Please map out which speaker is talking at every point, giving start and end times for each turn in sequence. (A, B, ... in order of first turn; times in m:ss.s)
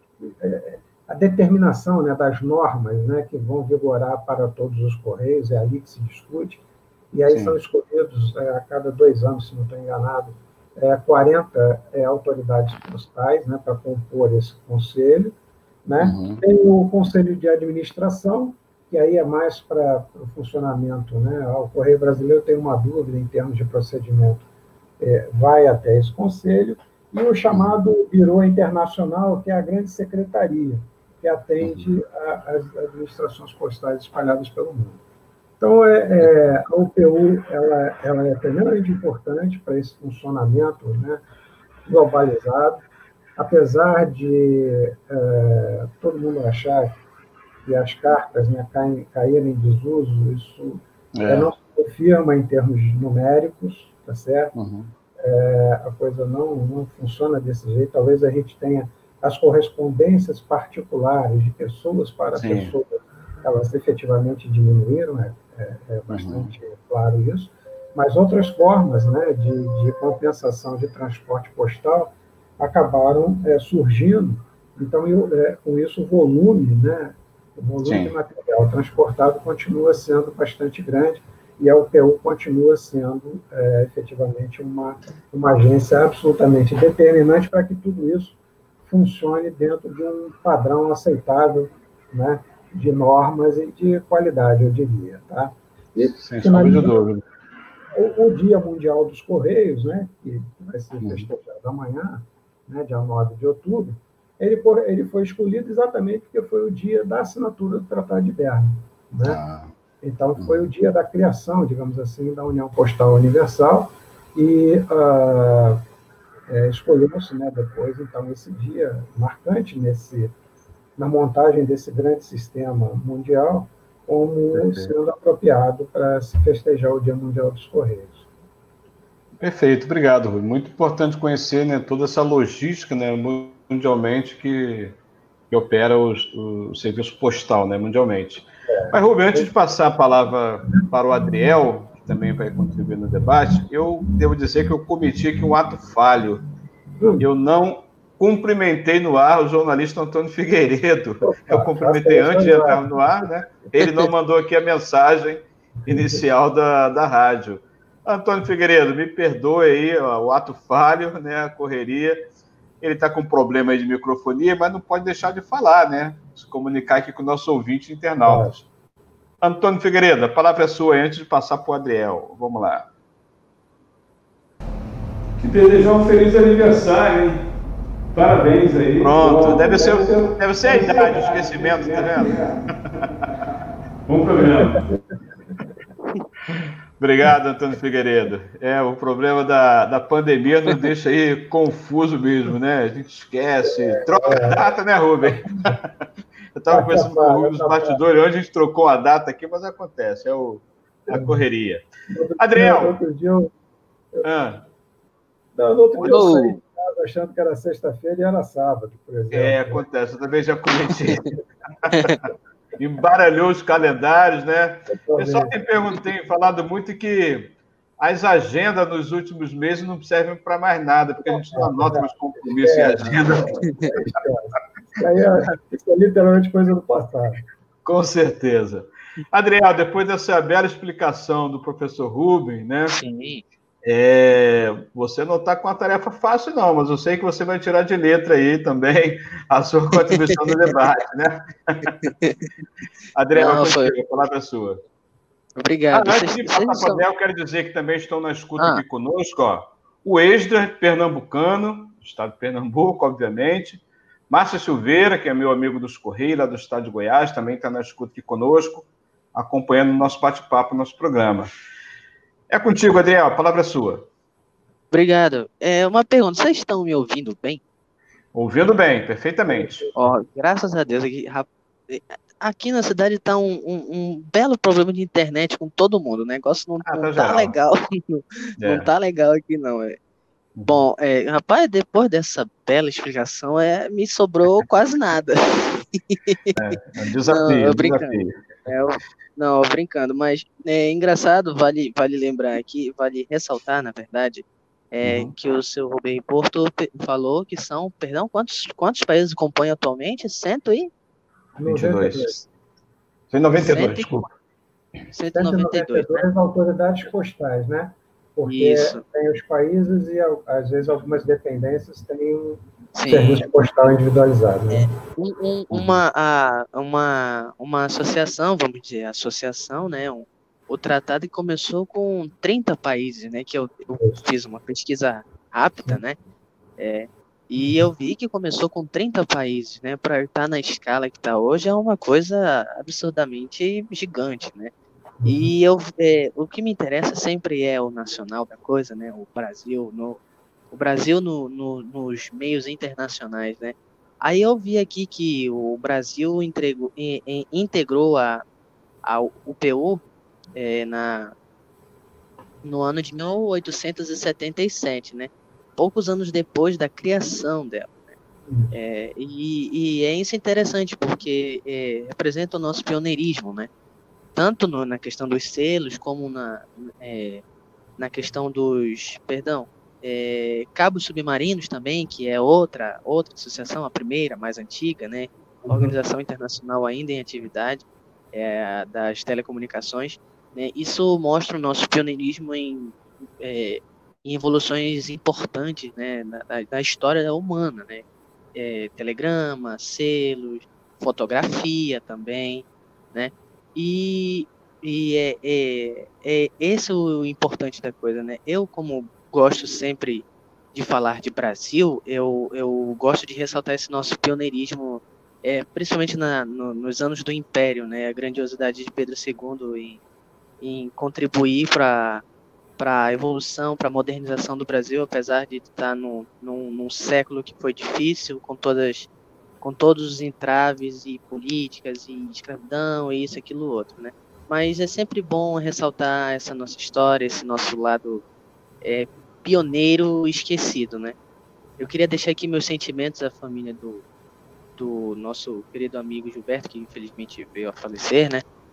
0:00.2-0:15.3 A
0:07.3-0:07.6 B
0:15.8-0:24.4 A
0:16.0-0:16.4 B
0:25.0-0:35.0 A
0:27.5-0:27.8 B
0:31.6-0:31.9 B
0:35.6-0:41.2 A
0:41.8-0:42.8 A
0:43.4-0:47.0 A
0:47.6-0:54.5 A
0:51.1-0:51.5 B
0:54.5-0:54.9 B
0:55.2-1:37.0 A
1:02.3-1:02.7 B
1:06.1-1:06.5 B
1:17.8-1:18.1 B
1:36.2-1:37.2 B
1:37.9-1:49.4 A
1:41.0-1:41.3 B
1:49.2-1:49.7 B
1:50.0-1:55.8 A
1:50.4-1:50.7 B
1:56.5-2:00.3 A
2:01.0-2:08.2 A
2:04.5-2:04.9 B
2:09.4-2:15.0 B
2:15.5-2:26.4 B
2:18.7-2:19.5 A
2:27.0-2:27.2 A
2:27.2-2:42.2 B
2:31.2-2:33.0 A
2:33.8-2:34.0 C
2:35.9-2:36.2 A
2:42.8-2:48.6 B
2:48.2-2:48.6 A
2:49.4-2:52.9 B
2:55.4-2:57.4 D
2:58.1-3:02.5 D
2:59.0-3:03.0 B
3:00.7-3:02.3 A
3:04.1-3:04.8 D
3:04.6-3:05.0 A
3:07.0-3:15.9 B
3:13.6-3:14.6 A
3:15.2-3:15.7 A
3:16.6-3:21.9 B
3:16.7-3:18.0 A
3:21.1-3:21.4 A
3:22.1-3:23.5 A
3:22.4-3:23.0 B
3:24.2-3:24.6 B
3:25.5-3:29.8 A
3:26.0-3:26.2 B
3:26.0-3:26.6 C
3:29.3-3:32.2 B
3:31.9-3:32.2 C
3:32.8-3:43.5 B
3:34.9-3:35.5 A
3:41.2-3:47.4 A
3:43.0-3:43.9 C
3:47.8-3:53.0 B
3:52.9-3:53.4 C
3:53.8-4:01.9 B
4:00.0-4:00.8 C
4:02.0-4:02.5 C
4:03.1-4:04.8 B
4:03.3-4:03.9 C
4:05.6-4:07.0 C
4:05.9-4:21.5 B
4:08.6-4:08.8 C
4:22.5-4:24.1 B
4:24.9-4:27.6 C
4:28.3-4:30.0 B
4:29.5-4:29.8 A
4:29.9-4:40.0 C
4:36.8-4:37.6 B
4:38.6-4:38.9 B
4:40.6-4:40.8 B
4:40.6-5:00.9 C
4:46.5-4:48.6 B
4:55.0-4:55.3 B
5:01.6-5:02.4 A
5:01.6-5:02.4 B
5:03.3-5:04.3 B
5:03.6-5:04.1 C
5:05.1-5:06.3 C
5:05.3-5:14.9 A
5:08.4-5:09.0 C
5:12.9-5:13.4 C
5:14.7-5:26.2 C
5:15.7-5:16.0 B
5:26.8-5:34.7 C
5:27.6-5:27.9 A
5:35.2-5:35.5 A
5:35.2-5:40.2 C
5:40.7-5:48.4 C
5:49.0-5:50.0 C
5:50.6-5:51.3 C
5:52.6-5:58.2 C
5:58.5-5:58.7 A
5:58.7-6:03.7 C
6:04.3-6:07.4 C
6:08.0-6:50.0 C
6:15.6-6:16.0 A
6:50.6-6:52.2 C
6:52.8-6:59.1 C
6:59.6-7:08.2 C
7:08.8-7:11.2 C
7:11.8-7:14.0 C
7:14.8-7:18.4 C